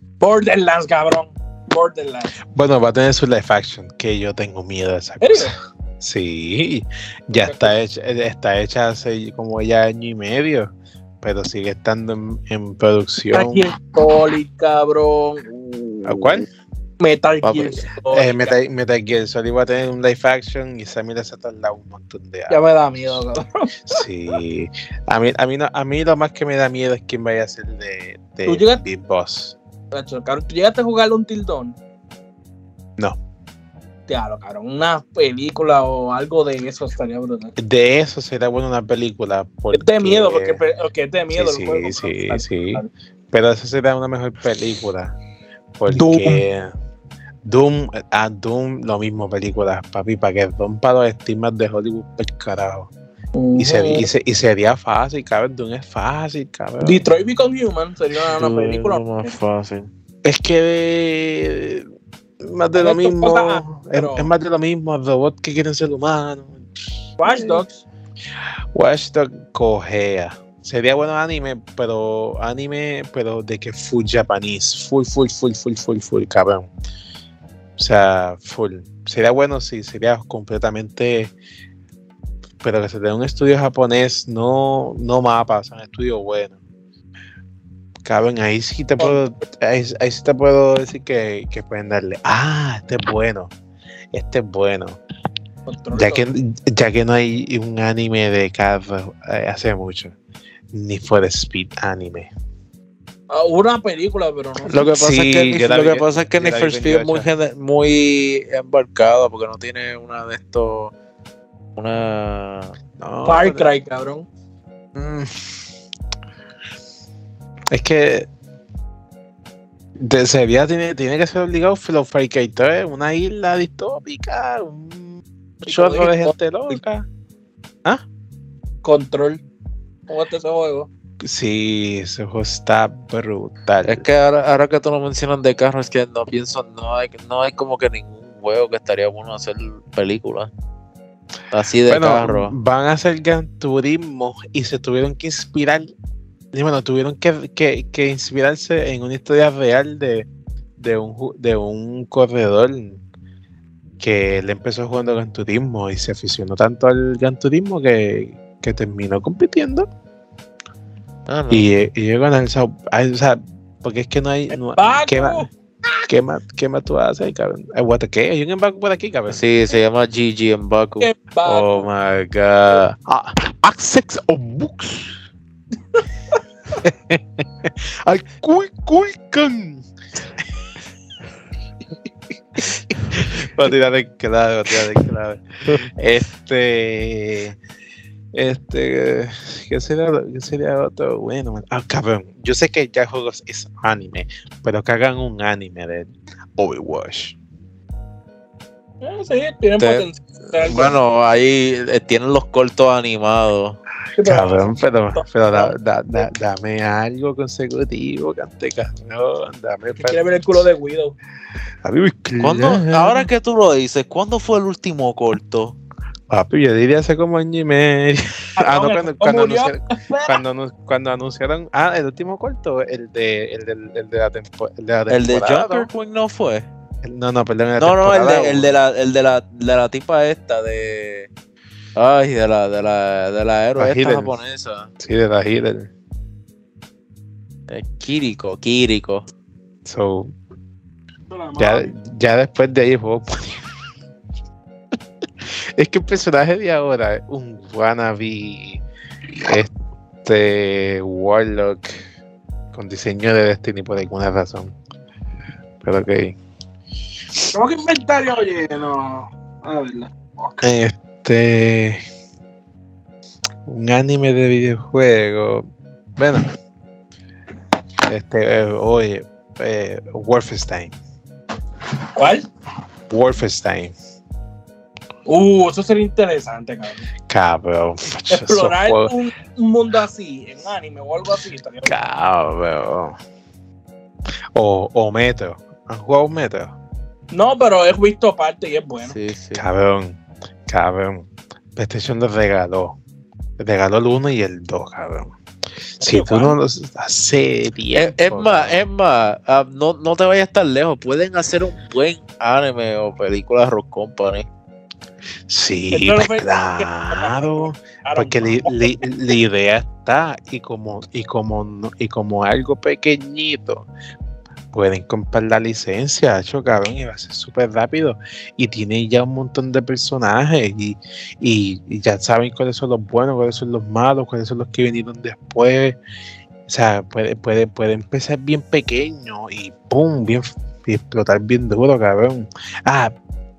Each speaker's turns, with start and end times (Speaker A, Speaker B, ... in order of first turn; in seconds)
Speaker A: 0.2-2.3, 5.2-5.5, 7.4-7.7, 13.3-16.4, 17.0-18.6, 22.5-24.0, 28.5-28.8, 29.9-31.8, 34.1-37.5, 39.7-42.9, 45.9-46.4, 53.4-54.1, 56.8-59.3, 62.8-64.3, 67.2-67.8, 95.7-96.2, 103.3-104.8, 113.3-114.3, 125.7-126.8, 128.8-129.4, 130.1-130.9, 164.5-165.5, 171.0-171.9, 199.0-201.0, 204.2-206.3, 210.0-211.2, 218.6-220.4, 241.3-241.9, 257.5-260.6, 272.2-272.4, 275.3-277.1, 278.3-281.9, 287.3-289.2, 296.0-296.6, 305.9-308.9
Speaker B: 2.5-10.7, 11.2-13.7, 16.0-16.5, 18.1-22.6, 23.9-29.6, 37.6-40.6, 41.3-45.1, 45.8-46.7, 47.5-52.9, 53.6-57.0, 60.2-61.9, 62.4-66.7, 67.2-67.6, 68.7-76.7, 77.8-81.3, 82.6-86.6, 88.1-93.5, 94.1-95.0, 95.9-100.1, 100.7-102.3, 104.8-107.3, 113.0-113.7, 115.0-115.6, 117.7-118.3, 120.0-127.1, 131.2-134.1, 141.9-145.9, 146.5-153.0, 154.0-159.9, 161.5-165.5, 166.1-169.6, 171.4-175.2, 176.8-179.8, 182.6-187.6, 188.3-197.4, 204.2-210.2, 211.8-213.3, 216.3-225.9, 227.0-228.7, 233.8-234.3, 235.0-235.9, 239.8-240.3, 241.6-243.6, 245.4-248.8, 249.4-249.7, 250.2-252.0, 252.7-254.7, 255.8-256.4, 260.6-262.0, 263.7-265.7, 266.2-266.5, 268.1-271.0, 273.1-273.9, 277.3-279.1, 281.9-283.2, 284.6-286.7, 289.5-293.0, 293.6-295.3, 296.0-298.9, 305.5-313.9, 314.7-326.0, 326.7-333.1
Speaker C: 17.4-17.9, 58.3-59.9, 104.7-110.9, 111.8-112.8, 133.8-140.5, 141.5-142.6, 161.3-161.7, 169.3-171.1, 199.8-203.8, 212.4-215.8, 225.1-226.7, 227.8-231.3, 232.0-234.9, 237.7-239.3, 289.1-289.6, 298.0-304.5